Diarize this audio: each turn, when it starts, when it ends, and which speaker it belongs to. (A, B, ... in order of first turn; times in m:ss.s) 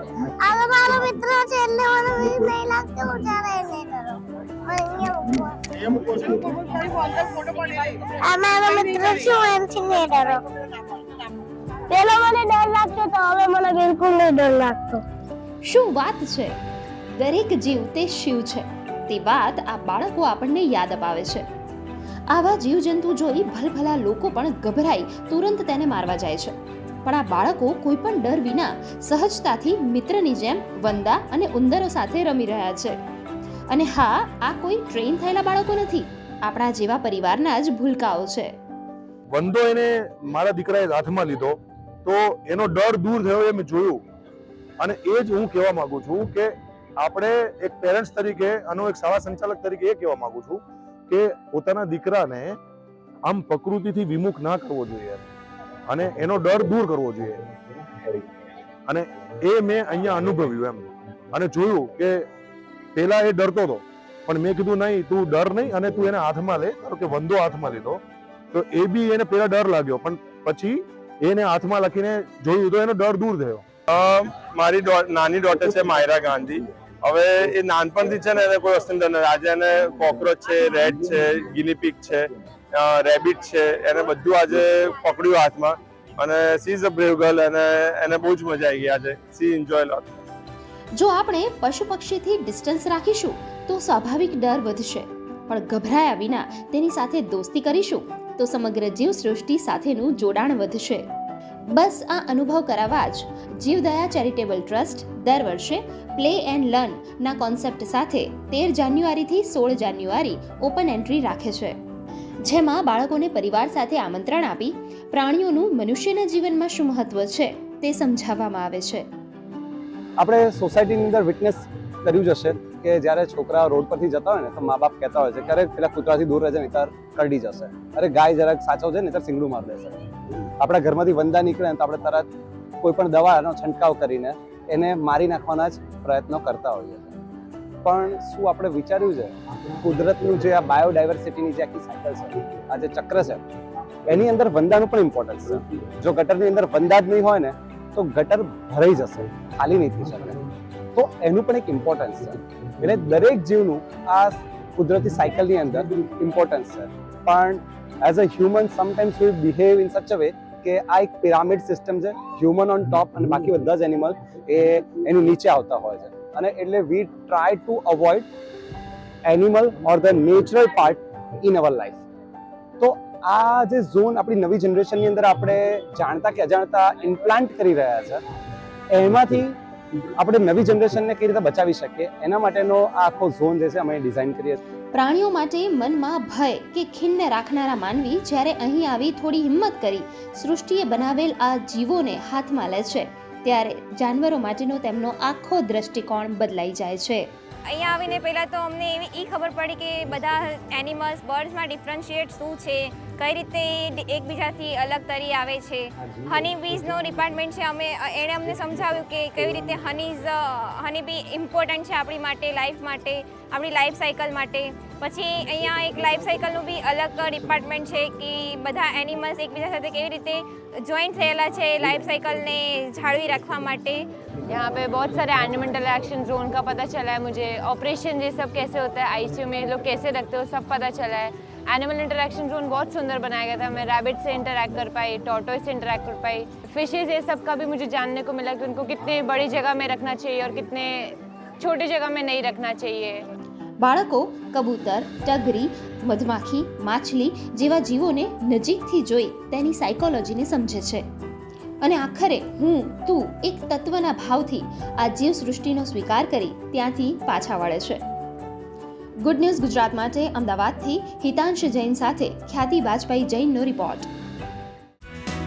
0:00.4-0:06.2 A
0:08.2-0:10.4 A
0:11.9-0:15.0 A
0:15.7-0:16.6 B
0:17.2-0:21.4 B
0:22.3-0:33.0 B
0:33.7-0:38.5 B
0:39.3-0:44.0 C
0:44.8-0:52.6 C
0:53.2-0:55.2 C
0:55.9-0:57.4 C
0:58.9-1:02.3 C
1:03.0-1:08.0 C
1:08.5-1:13.7 C
1:13.9-1:30.1 D
1:31.0-1:41.0 B
1:41.7-1:51.8 B
1:52.4-1:59.1 B
2:00.2-2:10.0 E
2:10.6-2:12.3 E
2:12.8-2:17.2 E
2:17.8-2:23.4 E
2:24.1-2:30.4 E
2:30.9-2:48.3 E
2:49.3-2:52.0 E
2:52.8-2:58.2 E
2:58.9-2:59.6 E
3:00.2-3:04.6 E
3:04.9-3:17.3 B
3:17.7-3:44.1 F
3:44.5-4:03.2 G
4:03.8-4:11.1 B
4:11.8-4:18.0 B
4:19.2-4:24.1 B